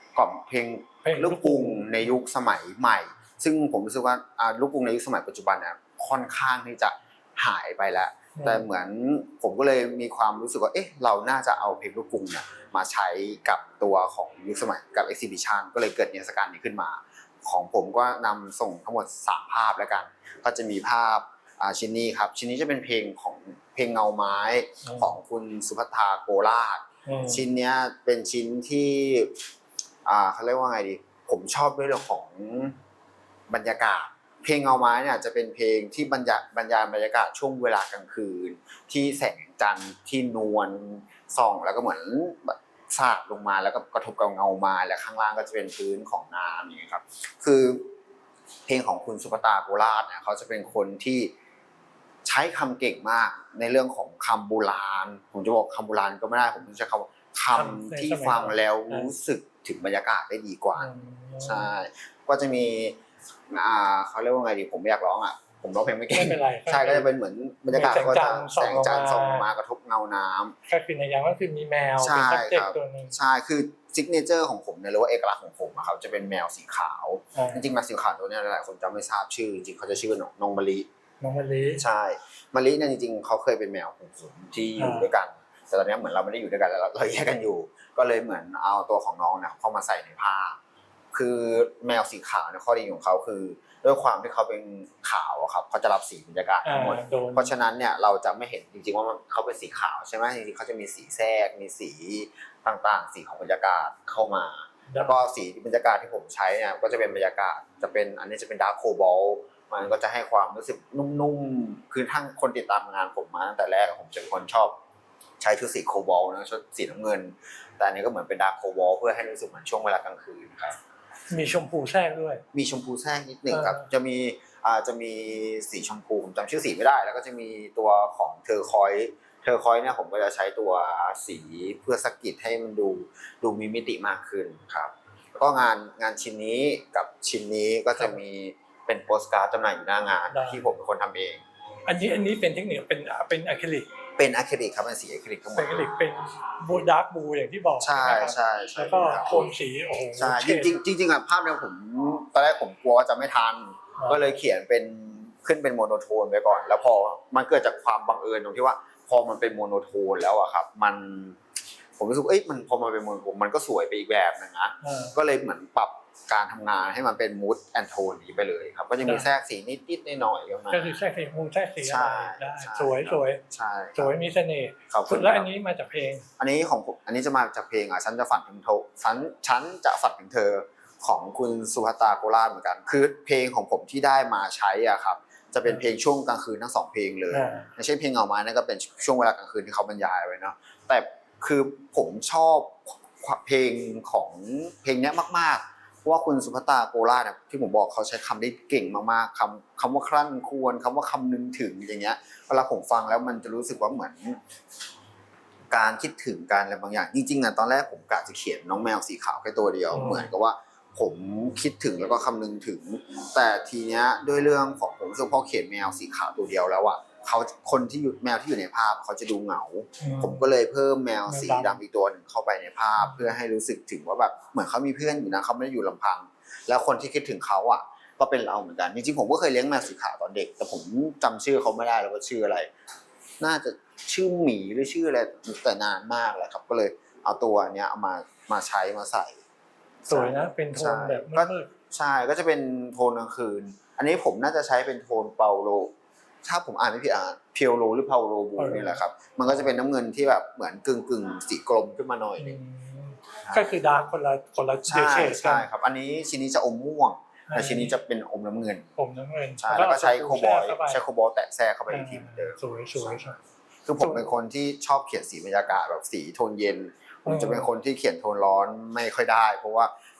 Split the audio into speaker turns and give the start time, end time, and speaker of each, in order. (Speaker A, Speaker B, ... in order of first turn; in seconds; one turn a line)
Speaker A: 0.1-29.3
Speaker B: 1.0-2.1
Speaker B: 8.3-8.6
Speaker B: 24.8-25.1
Speaker B: 27.0-27.4
Speaker A: 30.1-32.8
Speaker A: 33.5-47.9
Speaker A: 48.7-51.3
Speaker A: 52.2-60.9
Speaker B: 57.5-59.1
Speaker B: 60.8-61.7
Speaker A: 61.4-63.0
Speaker A: 63.5-70.5
Speaker B: 66.1-67.1
Speaker B: 67.7-69.5
Speaker B: 70.7-73.1
Speaker A: 72.0-80.9
Speaker B: 77.3-77.6
Speaker B: 81.2-81.8
Speaker A: 81.8-90.6
Speaker B: 84.8-85.1
Speaker A: 91.1-114.8
Speaker B: 96.6-97.5
Speaker B: 104.9-105.2
Speaker A: 115.4-120.8
Speaker B: 121.3-122.4
Speaker A: 122.5-141.4
Speaker B: 123.5-123.8
Speaker B: 140.3-140.7
Speaker B: 141.8-143.9
Speaker A: 144.2-145.9
Speaker B: 145.5-150.7
Speaker A: 147.8-149.5
Speaker A: 150.2-161.4
Speaker B: 154.0-154.3
Speaker A: 162.0-171.0
Speaker B: 164.8-165.1
Speaker B: 169.0-169.3
Speaker B: 170.7-173.4
Speaker A: 171.8-174.2
Speaker B: 173.9-176.2
Speaker A: 174.9-175.5
Speaker A: 176.4-204.4
Speaker B: 187.3-187.7
Speaker A: 205.7-232.7
Speaker B: 209.9-210.3
Speaker B: 220.0-220.4
Speaker B: 221.3-221.8
Speaker B: 223.0-223.3
Speaker A: 233.4-239.4
Speaker A: 240.0-245.9
Speaker B: 240.1-241.7
Speaker A: 246.4-252.6
Speaker B: 248.6-249.7
Speaker B: 252.4-255.7
Speaker A: 254.9-258.9
Speaker B: 257.5-257.9
Speaker B: 258.9-261.0
Speaker A: 259.6-263.2
Speaker B: 261.9-263.4
Speaker A: 263.9-269.9
Speaker B: 264.0-264.3
Speaker B: 267.3-267.6